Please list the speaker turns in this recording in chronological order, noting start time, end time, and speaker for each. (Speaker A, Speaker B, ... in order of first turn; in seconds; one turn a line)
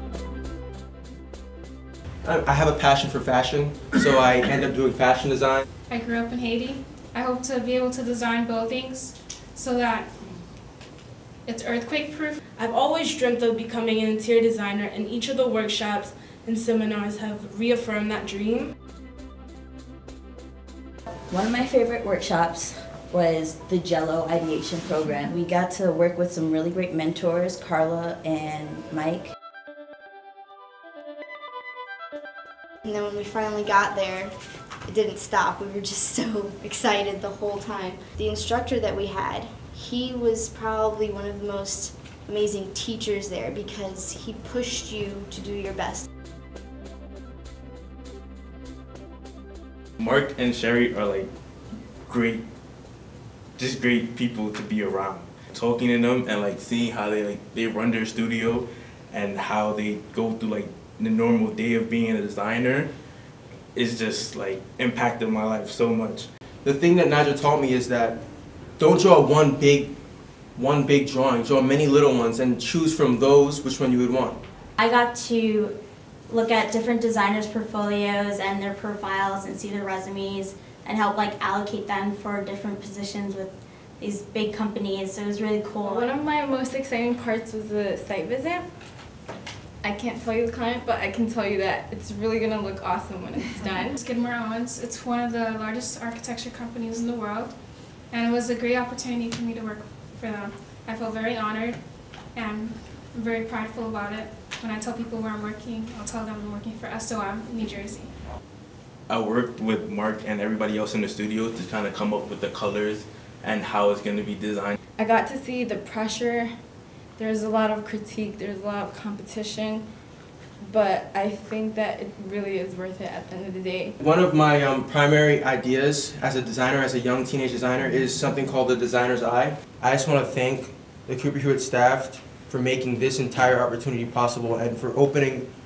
Speaker A: 2.2-5.7
Speaker B: 5.9-10.2
Speaker B: 11.4-12.4
Speaker C: 12.6-18.7
Speaker D: 21.3-29.3
Speaker E: 32.9-34.3
Speaker E: 34.9-46.1
Speaker F: 50.0-51.3
Speaker F: 52.1-52.4
Speaker F: 53.6-62.9
Speaker F: 63.8-66.3
Speaker A: 66.6-68.2
Speaker A: 68.8-69.9
Speaker A: 70.5-74.4
Speaker G: 74.8-75.8
Speaker G: 76.3-86.1
Speaker H: 85.9-88.7
Speaker H: 89.8-94.0
Speaker B: 93.6-108.1
Speaker F: 109.1-114.8
Speaker H: 115.0-116.6
Speaker H: 117.2-119.8
Speaker H: 120.6-124.0
Speaker A: 124.0-135.5